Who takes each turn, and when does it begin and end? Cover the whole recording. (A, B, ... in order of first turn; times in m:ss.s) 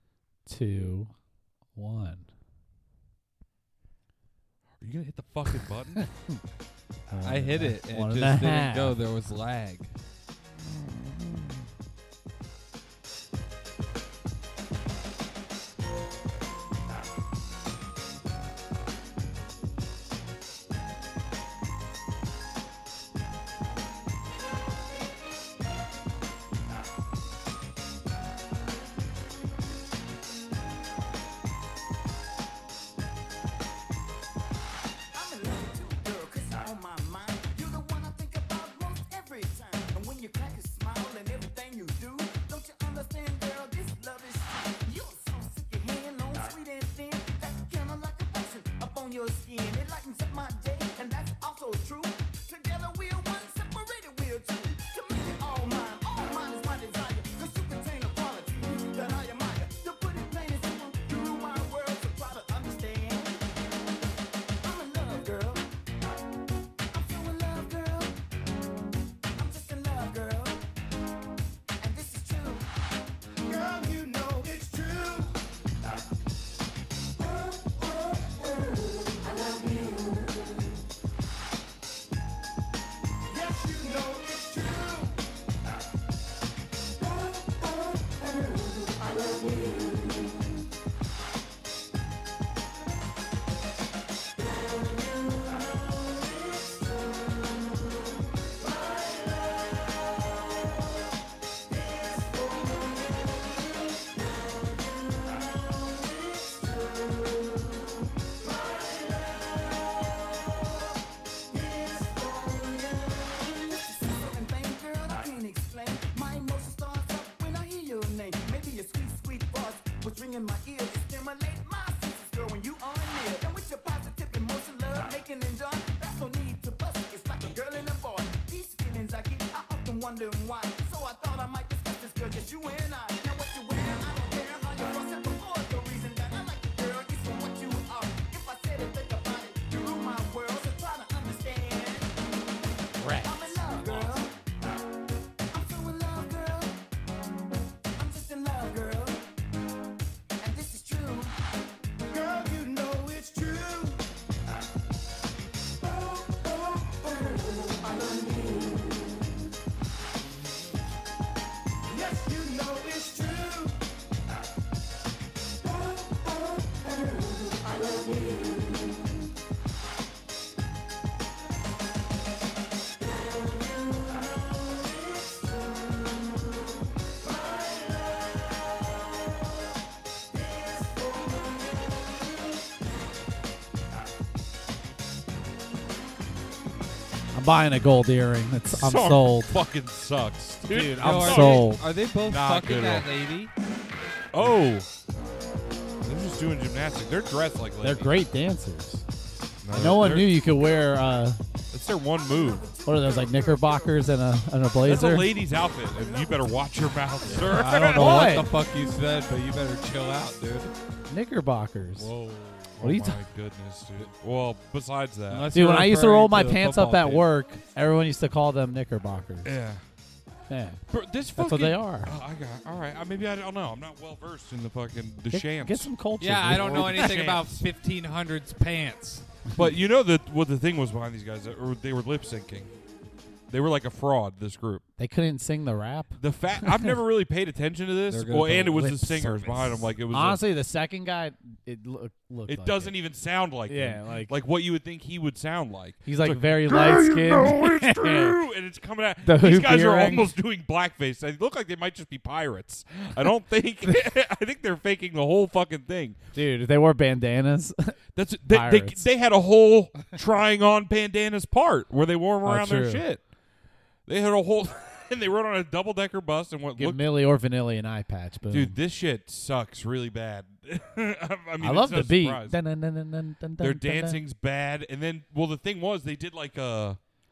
0:00.5-0:01.1 A
0:01.8-0:02.3 A
0:04.8-0:06.0 B
0:06.0-0:06.4 A
0:07.1-0:09.0 A
0:07.2-0:09.9 C
0:10.6-0:11.6 B
0:35.1-1:03.4 D
1:04.6-1:05.6 D
1:06.9-1:08.2 D
1:09.4-1:10.6 D
1:11.8-1:12.7 D
1:13.4-1:15.3 D
1:23.3-1:25.1 D
1:51.6-2:22.1 D
2:23.0-2:24.0 C
2:23.2-2:24.3 D
2:25.5-2:26.8 D
2:28.0-2:29.2 D
2:30.4-2:31.4 D
2:32.1-2:34.0 D
2:37.6-2:38.6 D
2:41.9-2:43.8 D
3:07.3-3:09.6 A
3:08.7-3:11.7 B
3:10.7-3:11.8 A
3:11.0-3:13.5 C
3:12.3-3:13.1 B
3:14.3-3:14.9 B
3:16.0-3:18.1 B
3:17.8-3:19.0 A
3:19.6-3:20.4 B
3:19.7-3:21.4 A
3:21.7-3:22.7 B
3:22.3-3:24.0 D
3:22.8-3:25.3 A
3:24.8-3:28.5 B
3:27.3-3:28.5 A
3:27.3-3:30.7 C
3:31.1-3:32.1 A
3:32.0-3:32.8 C
3:32.8-3:35.5 B
3:32.8-3:33.2 A
3:35.3-3:37.3 C
3:35.5-3:39.5 A
3:39.4-3:39.8 B
3:40.5-3:40.8 A
3:40.9-3:47.7 B
3:41.4-3:42.1 A
3:45.3-3:47.2 A
3:46.2-3:49.3 C
3:49.5-3:52.7 B
3:53.5-3:54.8 B
3:55.0-3:56.9 A
3:56.2-4:00.4 B
3:58.1-3:59.9 C
4:00.1-4:03.0 A
4:02.5-4:16.2 B
4:03.7-4:04.3 A
4:06.0-4:08.4 A
4:09.2-4:10.3 A
4:16.3-4:19.1 A
4:18.2-4:23.2 B
4:22.4-4:23.0 A
4:24.1-4:27.1 B
4:26.8-4:28.8 A
4:28.5-4:32.6 B
4:31.6-4:34.2 A
4:33.6-4:37.0 B